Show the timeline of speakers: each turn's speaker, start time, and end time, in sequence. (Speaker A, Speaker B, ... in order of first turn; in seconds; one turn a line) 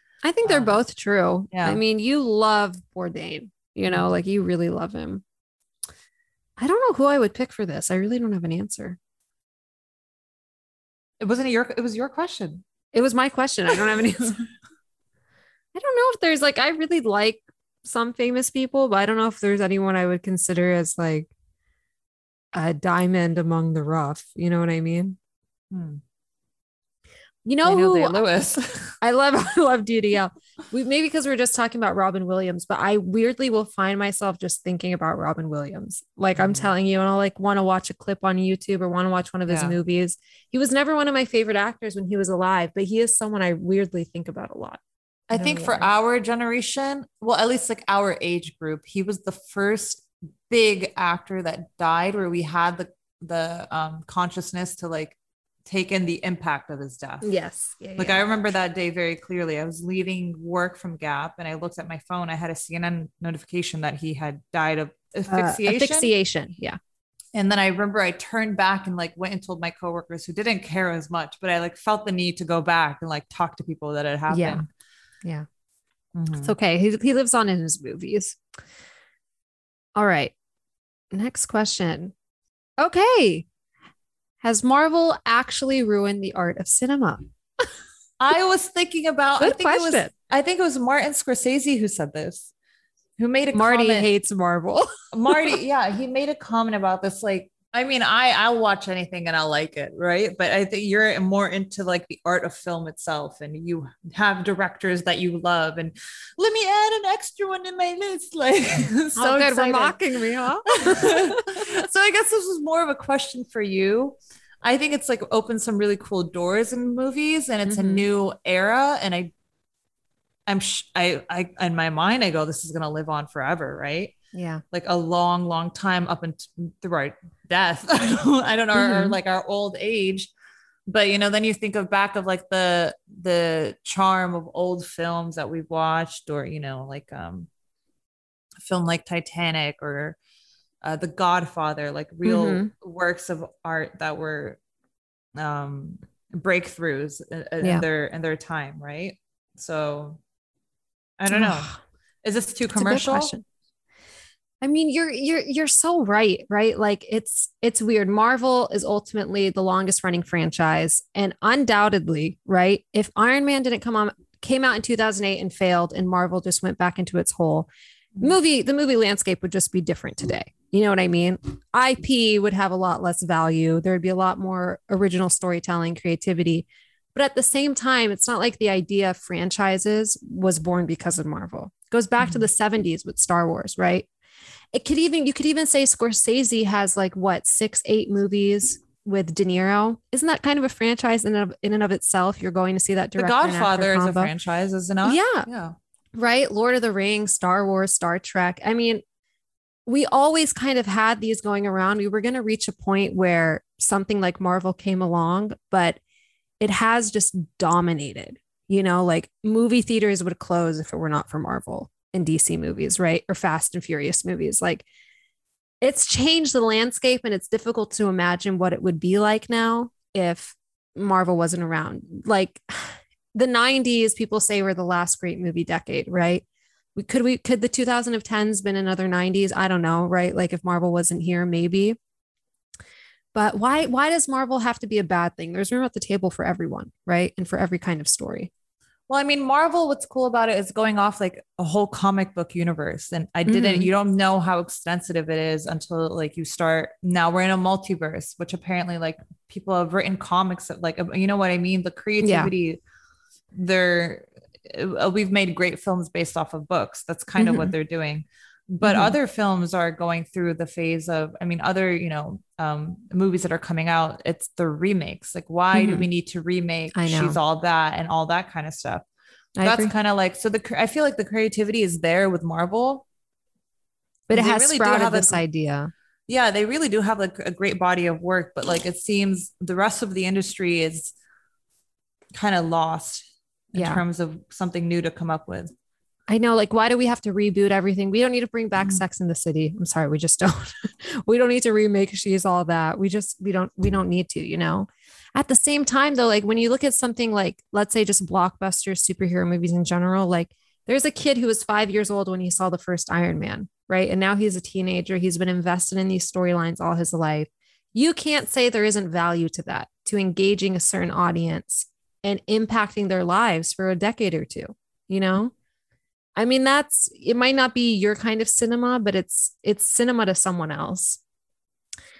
Speaker A: 0.2-5.2
Speaker B: 0.4-0.8
Speaker B: 1.5-1.8
Speaker B: 3.9-4.1
Speaker A: 6.6-9.0
Speaker B: 11.2-12.6
Speaker A: 12.9-14.5
Speaker A: 15.7-21.3
Speaker A: 22.5-25.2
Speaker B: 25.7-26.0
Speaker A: 27.4-28.3
Speaker B: 27.6-28.9
Speaker A: 29.0-45.9
Speaker B: 36.3-36.7
Speaker B: 39.5-39.8
Speaker B: 45.3-57.2
Speaker A: 57.2-58.3
Speaker B: 58.0-66.1
Speaker A: 65.3-66.8
Speaker B: 67.3-74.6
Speaker A: 74.3-74.6
Speaker B: 76.1-76.5
Speaker A: 76.4-78.4
Speaker A: 80.0-80.3
Speaker A: 81.1-82.1
Speaker A: 82.8-83.5
Speaker A: 84.4-87.2
Speaker B: 88.2-92.5
Speaker A: 89.4-90.1
Speaker B: 93.2-94.1
Speaker A: 93.5-95.6
Speaker B: 95.1-110.0
Speaker A: 109.2-111.5
Speaker B: 110.7-119.3
Speaker A: 117.7-118.0
Speaker B: 120.5-124.1
Speaker A: 124.3-124.6
Speaker B: 124.7-130.3
Speaker A: 128.7-129.2
Speaker B: 130.9-137.5
Speaker B: 138.6-140.2
Speaker B: 140.8-144.6
Speaker A: 142.2-142.7
Speaker B: 145.3-150.2
Speaker B: 151.2-153.3
Speaker A: 151.3-151.8
Speaker A: 152.7-153.4
Speaker A: 154.6-167.7
Speaker A: 168.2-184.1
Speaker A: 184.7-194.3
Speaker B: 193.2-195.8
Speaker A: 195.0-195.5
Speaker A: 196.1-199.0
Speaker A: 199.8-206.0
Speaker A: 206.6-214.8
Speaker A: 215.8-226.4
Speaker A: 226.9-232.0
Speaker A: 233.3-238.5
Speaker B: 239.1-252.8
Speaker A: 243.4-243.9
Speaker A: 252.2-252.5
Speaker B: 253.5-269.0
Speaker A: 257.4-257.7
Speaker A: 258.8-259.1
Speaker A: 265.7-266.1
Speaker A: 266.9-267.4
Speaker A: 269.6-269.9
Speaker B: 269.6-273.0
Speaker A: 274.3-275.9
Speaker B: 274.3-275.4
Speaker B: 276.3-281.1
Speaker B: 282.3-285.7
Speaker A: 283.7-284.0
Speaker A: 286.3-315.5
Speaker A: 316.4-321.2